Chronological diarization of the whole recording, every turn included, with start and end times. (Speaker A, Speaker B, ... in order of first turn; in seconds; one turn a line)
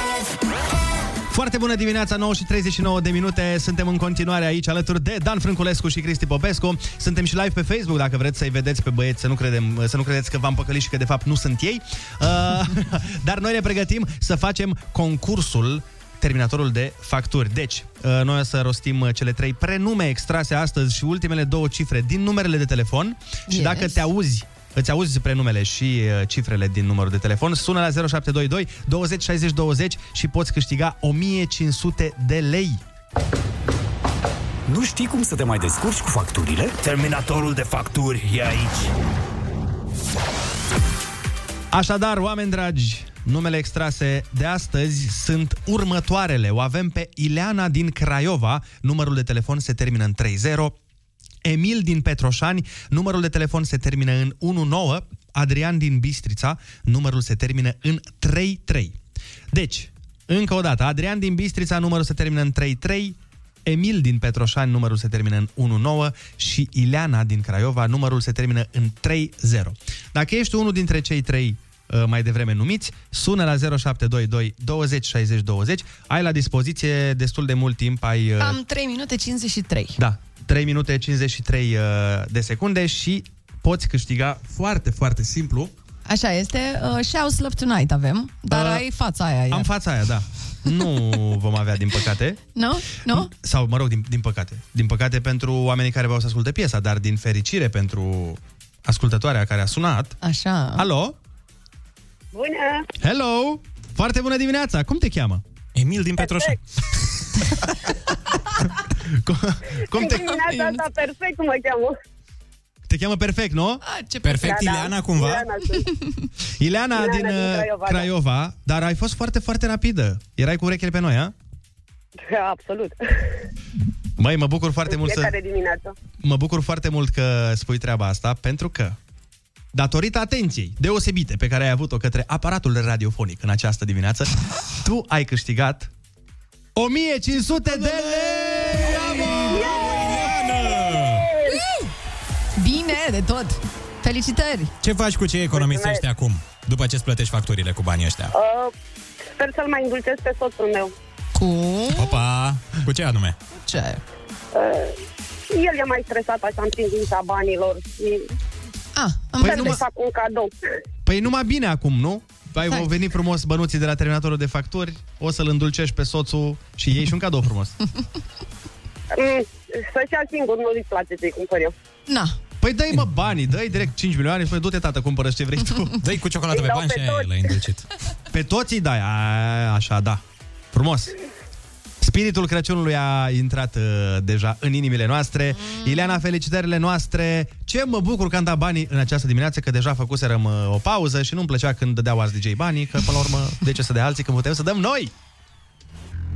Speaker A: 1.3-32.8
Speaker B: 23.5-24.0
Speaker C: 34.7-38.9
Speaker A: 41.7-50.8
Speaker A: 51.4-59.0
Speaker A: 59.5-78.6
Speaker B: 78.4-80.0
Speaker A: 80.0-85.7
Speaker B: 86.1-89.7
Speaker A: 88.5-88.8
Speaker A: 89.5-92.4
Speaker B: 92.6-93.3
Speaker A: 93.1-100.2
Speaker B: 100.2-100.9
Speaker A: 100.8-101.2
Speaker D: 102.3-102.9
Speaker A: 103.0-105.4
Speaker E: 105.8-106.6
Speaker D: 106.2-106.5
Speaker A: 109.0-110.4
Speaker D: 109.9-112.0
Speaker B: 110.3-110.8
Speaker A: 112.9-113.8
Speaker B: 113.8-114.7
Speaker E: 114.2-115.5
Speaker D: 114.4-115.9
Speaker A: 116.6-121.3
Speaker D: 117.0-118.1
Speaker D: 122.2-123.0
Speaker A: 124.2-125.3
Speaker D: 124.9-126.0
Speaker A: 126.2-129.0
Speaker A: 129.7-135.9
Speaker A: 136.8-139.8
Speaker E: 138.2-141.3
Speaker B: 142.6-144.7
Speaker E: 144.8-148.3
Speaker D: 145.5-146.0
Speaker D: 148.3-148.7
Speaker D: 149.3-150.9
Speaker B: 151.4-152.2
Speaker E: 151.9-153.4
Speaker B: 153.6-154.0
Speaker D: 154.5-154.9
Speaker D: 155.5-158.3
Speaker B: 159.0-159.8
Speaker A: 159.4-159.8
Speaker D: 159.4-160.5
Speaker A: 161.1-167.8
Speaker D: 169.1-171.8
Speaker B: 172.1-172.4
Speaker A: 172.6-176.0
Speaker E: 176.0-177.9
Speaker D: 176.5-177.4
Speaker A: 178.3-180.2
Speaker A: 180.7-181.1
Speaker A: 182.0-195.1